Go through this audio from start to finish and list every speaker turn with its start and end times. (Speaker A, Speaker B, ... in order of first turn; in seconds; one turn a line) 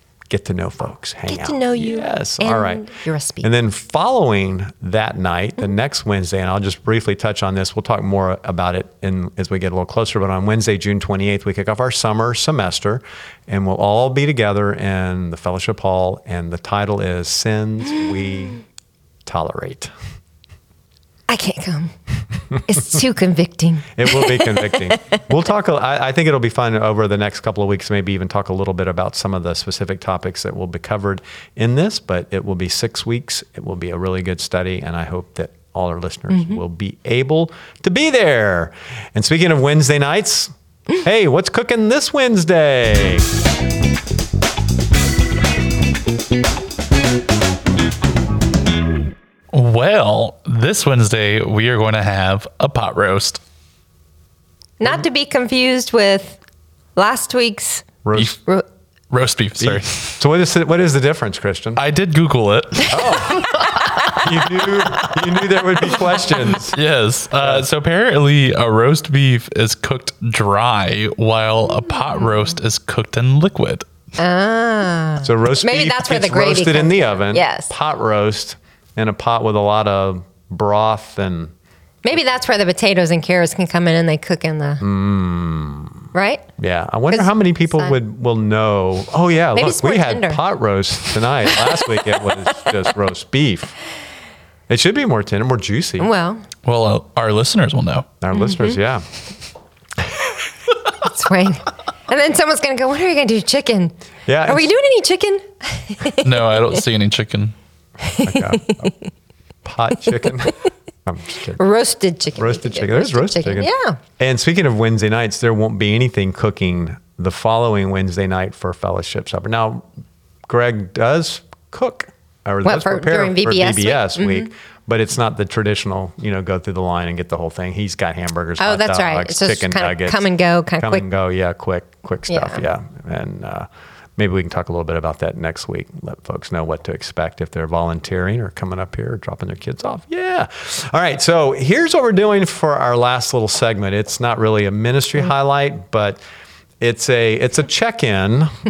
Speaker A: 0.3-2.8
Speaker B: 1.3-3.5
Speaker A: 3.4-18.6
Speaker A: 19.2-19.9
Speaker B: 21.3-21.9
Speaker B: 22.6-25.2
Speaker A: 23.9-43.3
Speaker C: 49.5-53.4
Speaker B: 54.8-56.4
Speaker B: 57.0-57.9
Speaker A: 58.0-58.4
Speaker C: 59.1-60.2
Speaker A: 59.6-61.8
Speaker C: 61.8-73.8
Speaker A: 62.9-66.8
Speaker B: 74.2-77.7
Speaker A: 75.2-81.5
Speaker B: 82.0-84.8
Speaker A: 84.8-93.7
Speaker B: 86.1-86.5
Speaker B: 87.1-88.0
Speaker B: 89.5-90.4
Speaker B: 91.5-92.3
Speaker A: 94.7-96.1
Speaker B: 96.0-96.4
Speaker C: 96.6-98.1
Speaker A: 98.2-99.0
Speaker B: 101.0-103.9
Speaker A: 104.3-104.7
Speaker B: 104.5-106.8
Speaker C: 106.2-107.5
Speaker B: 108.0-108.9
Speaker A: 108.2-108.9
Speaker A: 109.6-111.6
Speaker B: 111.6-114.0
Speaker A: 112.4-119.8
Speaker A: 120.5-146.2
Speaker B: 122.6-124.5
Speaker B: 128.6-131.0
Speaker B: 132.3-132.6
Speaker A: 146.8-148.5